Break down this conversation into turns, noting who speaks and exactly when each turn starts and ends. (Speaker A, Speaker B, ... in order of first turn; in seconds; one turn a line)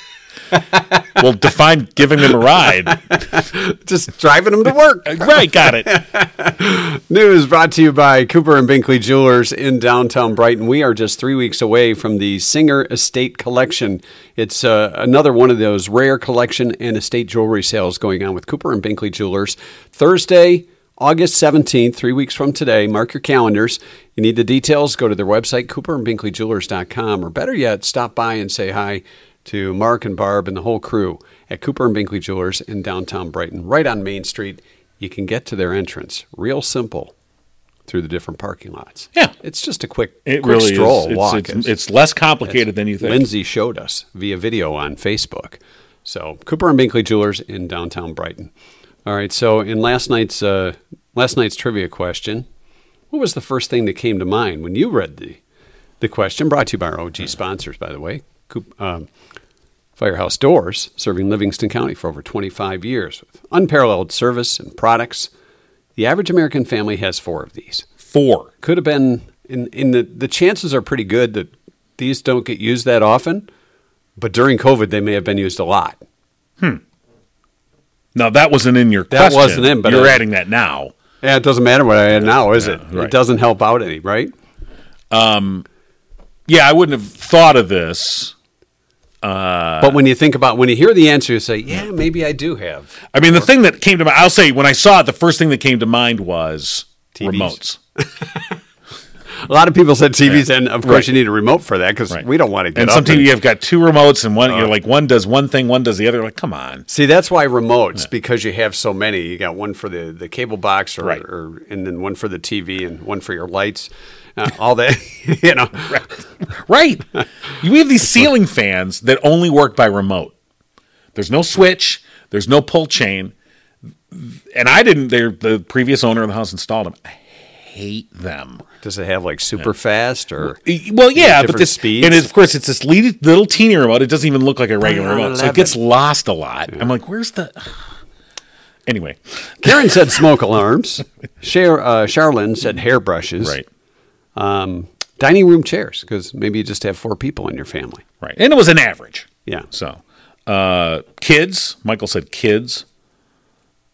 Speaker A: 0.5-1.0
Speaker B: 1.1-3.0
Speaker A: 3.1-37.1
Speaker B: 5.1-5.9
Speaker A: 37.9-41.7
Speaker B: 40.2-43.2
Speaker A: 42.5-48.5
Speaker A: 49.0-52.5
Speaker A: 53.1-55.4
Speaker A: 56.0-59.1
Speaker A: 60.0-65.3
Speaker A: 66.0-67.8
Speaker B: 68.1-68.5
Speaker A: 68.6-73.5
Speaker A: 74.2-76.0
Speaker B: 78.1-80.9
Speaker A: 79.1-80.2
Speaker A: 81.2-84.3
Speaker B: 82.2-83.1
Speaker B: 85.1-85.6
Speaker B: 86.5-88.3
Speaker B: 89.2-90.0
Speaker A: 89.8-93.0
Speaker B: 93.1-97.8
Speaker A: 97.1-98.5
Speaker A: 99.4-103.3
Speaker B: 100.3-101.1
Speaker B: 102.8-106.8
Speaker A: 106.9-116.0
Speaker B: 115.9-120.3
Speaker B: 121.1-123.3
Speaker B: 124.1-128.6
Speaker A: 128.8-130.6
Speaker B: 130.5-137.7
Speaker A: 131.1-132.2
Speaker A: 134.9-135.7
Speaker B: 138.9-139.7
Speaker A: 139.6-143.6
Speaker A: 144.3-148.0
Speaker B: 148.2-152.8